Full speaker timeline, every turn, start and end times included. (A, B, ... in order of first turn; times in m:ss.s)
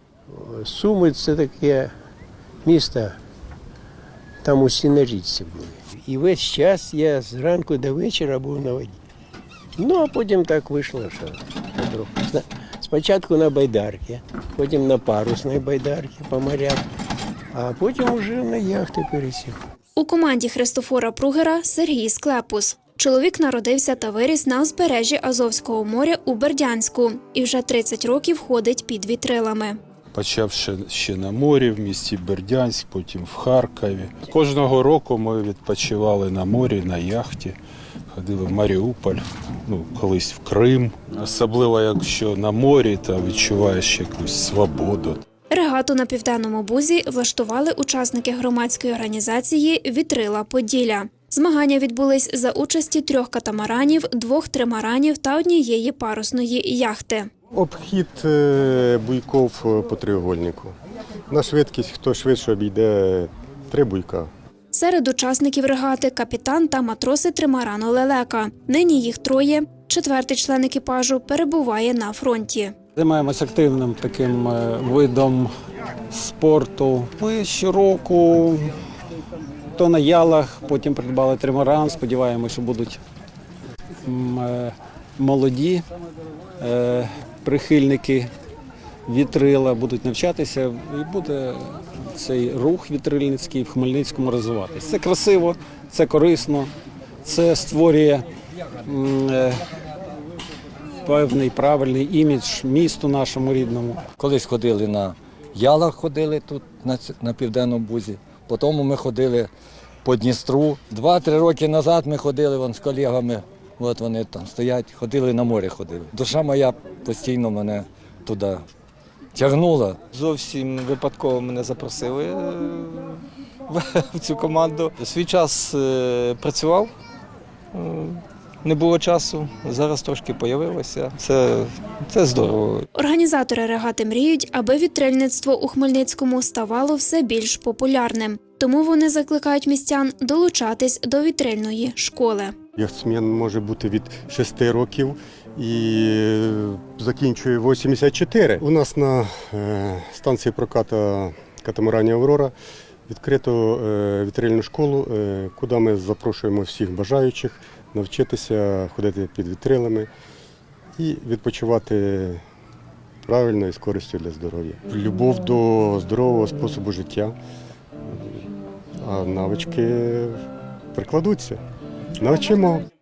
0:00.3-0:01.9 A
0:02.6-0:03.2 A
0:04.4-0:09.0 A
0:09.8-0:16.8 A
0:17.5-0:19.6 A
0:20.0-0:29.8 B
0:30.1-0:37.6 C
0:38.1-0:45.2 C
0:45.5-0:57.3 B
0:57.5-1:00.7 D
1:01.3-1:04.3 D
1:04.7-1:12.7 B
1:13.0-1:15.5 E
1:16.1-1:18.8 E
1:19.8-1:23.0 E
1:24.0-1:25.8 E
1:26.6-1:28.3 E
1:29.1-1:36.7 E
1:37.2-1:38.2 E
1:38.9-1:39.6 E
1:41.0-1:44.0 E
1:44.2-1:49.5 F
1:50.0-1:58.6 F
1:59.3-2:00.0 F
2:00.1-2:06.9 G
2:07.7-2:12.8 G
2:12.9-2:22.5 B
2:22.8-2:32.5 D
2:33.1-2:40.1 D
2:41.0-2:42.4 D
2:43.2-2:47.3 D
2:48.1-2:48.4 D
2:49.0-2:50.4 D
2:50.9-2:51.6 D
2:52.2-2:52.8 D